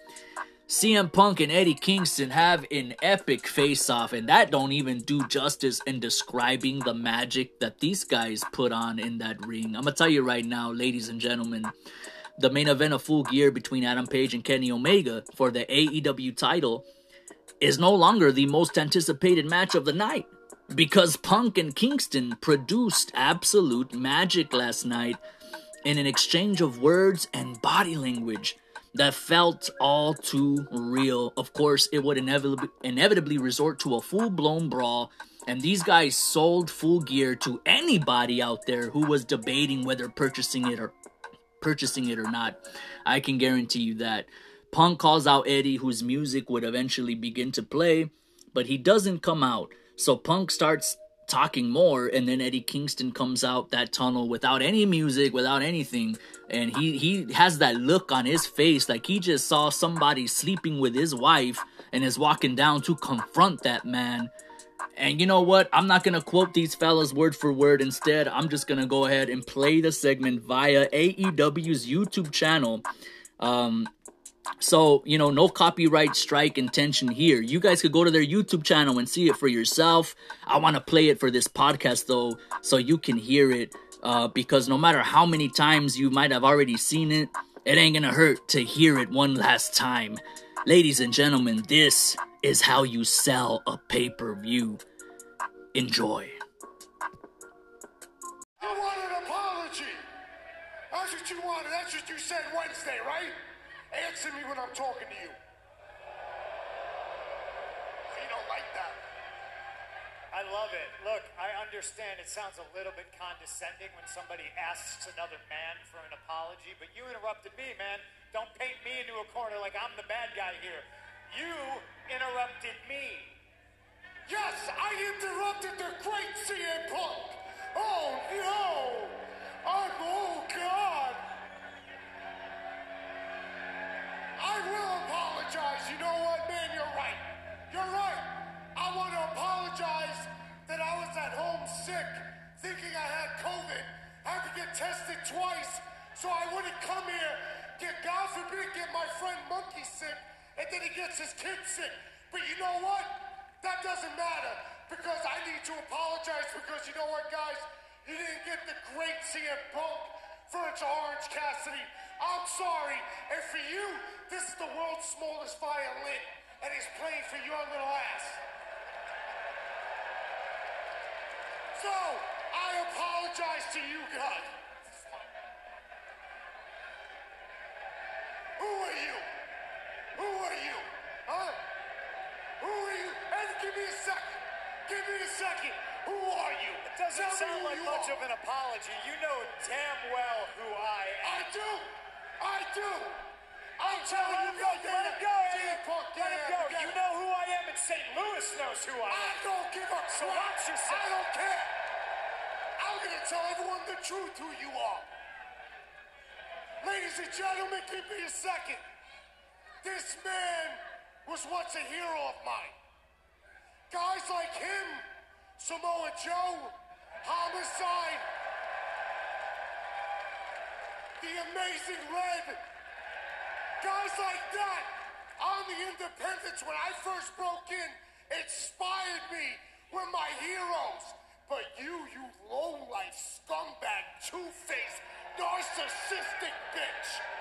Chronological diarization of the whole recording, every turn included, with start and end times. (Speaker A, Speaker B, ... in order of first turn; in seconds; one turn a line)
Speaker A: 0.7-11.7
Speaker A: 12.4-16.9
Speaker A: 17.6-25.2
Speaker A: 25.8-40.9
Speaker A: 41.6-64.3
Speaker A: 65.0-72.8
Speaker A: 73.4-73.9
Speaker A: 74.6-94.8
Speaker A: 95.7-96.4
Speaker B: 98.6-100.0
Speaker B: 100.9-103.3
Speaker B: 103.9-105.4
Speaker B: 108.1-109.0
Speaker C: 110.3-123.3
Speaker B: 124.2-131.2
Speaker B: 134.4-168.4
Speaker B: 171.7-174.6
Speaker B: 178.6-179.3
Speaker B: 180.1-181.6
Speaker B: 182.6-188.2
Speaker C: 186.9-191.5
Speaker B: 191.2-193.3
Speaker B: 193.8-197.0
Speaker C: 193.8-199.4
Speaker B: 199.1-201.7
Speaker C: 200.1-201.1
Speaker B: 202.8-205.1
Speaker B: 206.8-208.8
Speaker B: 209.8-212.7
Speaker B: 213.9-215.0
Speaker B: 215.6-218.2
Speaker B: 221.2-222.6
Speaker B: 223.8-237.2